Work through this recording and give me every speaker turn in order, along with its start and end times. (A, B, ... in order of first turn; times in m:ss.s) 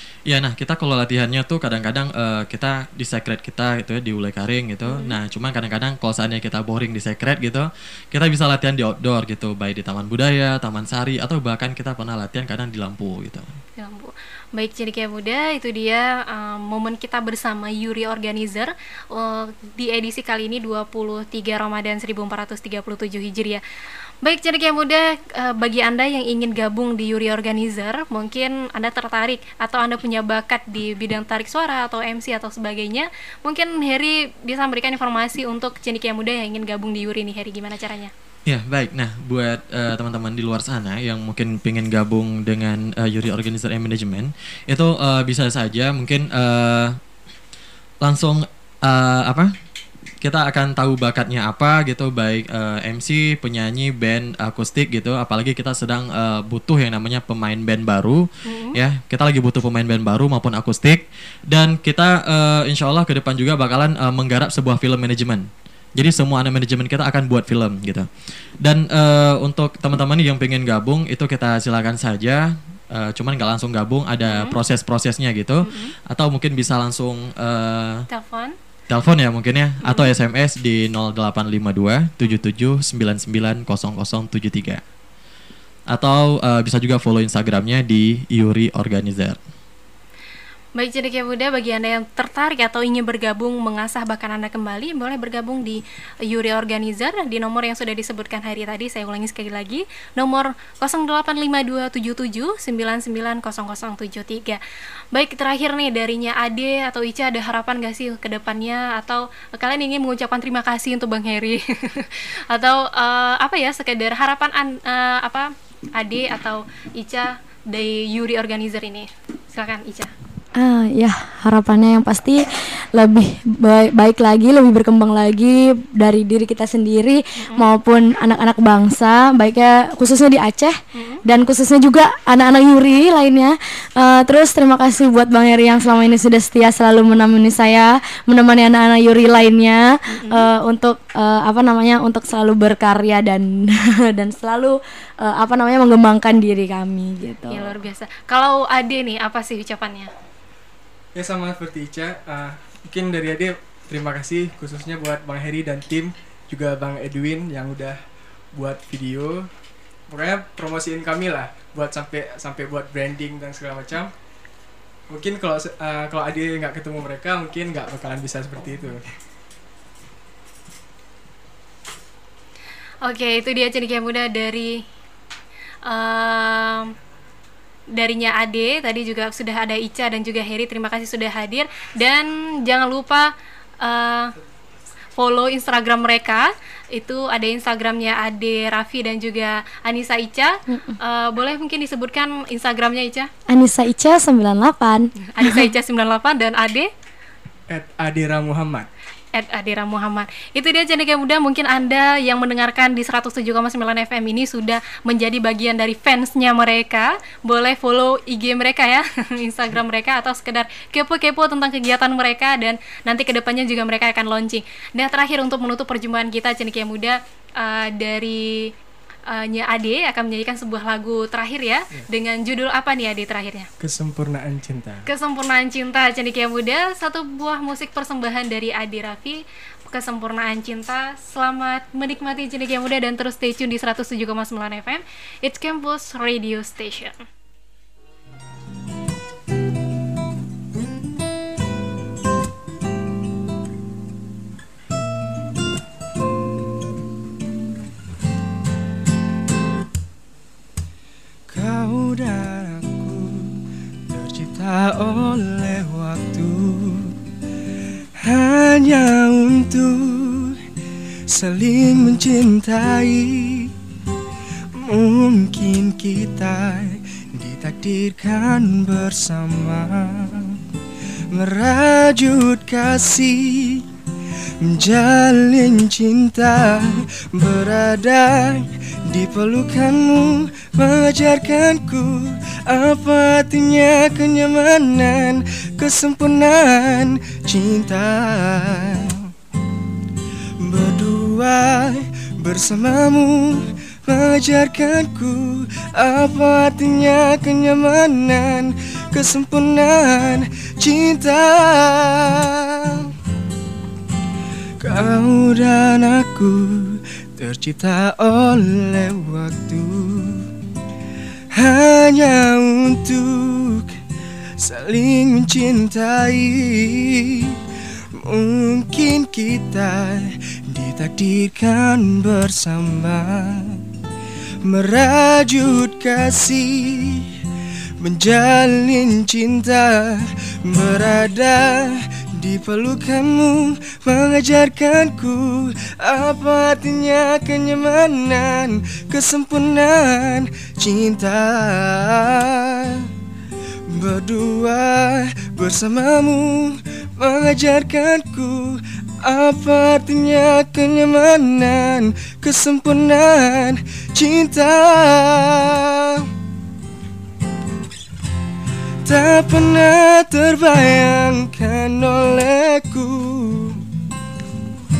0:00.3-0:13.5 A
0:04.8-0:05.2 B
0:13.8-0:23.6 B
0:24.2-0:38.1 B
0:38.5-0:47.0 A
0:48.0-0:49.5 A
0:50.2-1:08.1 A
0:58.4-0:58.8 B
1:08.6-1:18.0 A
1:14.2-1:14.6 B
1:15.6-1:15.9 B
1:18.1-1:18.6 B
1:18.9-1:24.8 A
1:19.8-1:20.1 B
1:25.9-1:29.4 A
1:30.8-1:44.6 B
1:45.1-2:00.1 B
2:00.6-2:02.4 C
2:02.9-2:27.7 C
2:07.4-2:07.7 B
2:10.9-2:11.2 B
2:20.1-2:20.5 B
2:27.5-2:30.1 B
2:31.2-2:38.0 D
2:38.5-2:39.5 D
2:40.1-2:44.1 D
2:45.1-2:49.0 D
2:53.0-2:54.8 B
2:55.8-2:56.9 B
2:57.9-3:03.3 B
3:03.8-3:04.3 B
3:05.2-3:13.3 B
3:10.7-3:11.0 C
3:13.5-3:15.1 C
3:15.3-3:16.9 B
3:17.7-3:18.9 D
3:19.3-3:38.7 B
3:39.3-3:43.7 B
3:43.8-3:45.1 D
3:45.0-3:57.2 B
4:11.5-4:17.1 E
4:18.3-4:20.6 E
4:21.3-4:23.7 E
4:24.8-4:30.6 E
4:31.3-4:33.8 E
4:34.6-4:49.2 E
4:50.6-5:03.1 E
5:04.8-5:10.4 E
5:11.6-5:13.9 E
5:14.6-5:17.4 E
5:18.3-5:23.8 E
5:24.7-5:27.2 E
5:28.0-5:43.0 E
5:44.0-5:56.2 E
5:59.0-6:03.8 E